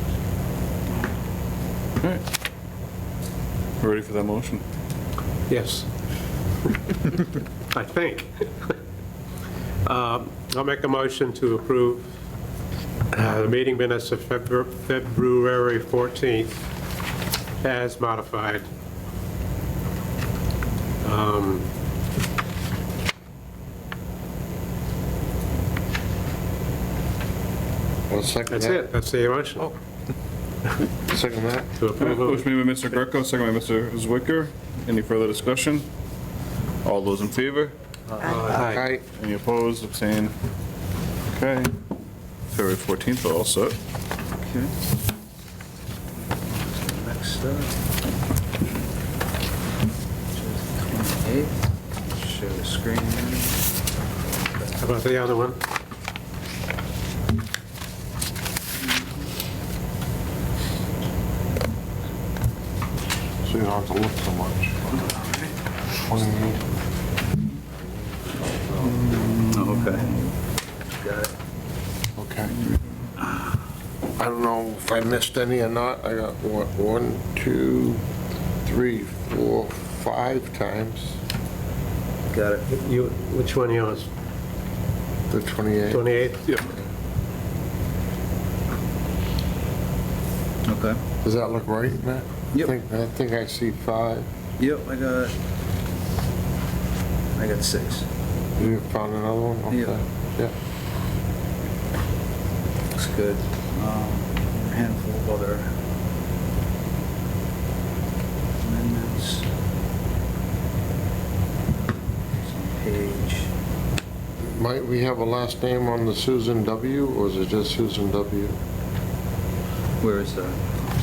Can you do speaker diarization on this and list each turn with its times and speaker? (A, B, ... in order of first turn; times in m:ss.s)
0:03.8-0:04.6 A
0:05.5-0:05.9 B
0:07.7-0:08.8 B
0:09.8-0:12.1 B
0:13.1-0:16.6 B
0:17.6-0:18.7 B
0:21.0-0:21.7 B
0:28.1-0:28.8 C
0:28.5-0:29.8 B
0:31.0-0:31.7 C
0:31.8-0:32.4 B
0:32.0-0:35.9 A
0:36.8-0:37.7 A
0:38.1-0:38.6 D
0:38.2-0:38.9 B
0:38.5-0:39.0 C
0:39.1-0:40.3 A
0:41.3-0:41.7 A
0:42.5-0:43.8 A
0:44.4-0:44.7 D
0:46.3-0:47.8 D
0:50.3-0:54.9 D
0:54.8-0:55.6 B
1:03.4-1:05.2 C
1:04.9-1:05.5 D
1:06.0-1:06.7 C
1:08.4-1:09.0 C
1:09.0-1:09.5 A
1:09.5-1:10.2 D
1:10.9-1:11.3 D
1:12.2-1:12.6 C
1:14.2-1:18.0 C
1:18.6-1:21.2 C
1:22.3-1:22.7 D
1:22.7-1:24.1 B
1:25.3-1:26.1 C
1:25.9-1:26.4 B
1:30.7-1:31.0 D
1:31.2-1:34.3 C
1:34.6-1:35.4 D
1:37.4-1:38.1 D
1:38.6-1:40.5 C
1:39.7-1:40.0 D
1:42.9-1:45.8 D
1:48.6-1:49.5 D
1:52.4-1:53.5 D
1:54.4-1:58.6 C
2:00.0-2:00.7 D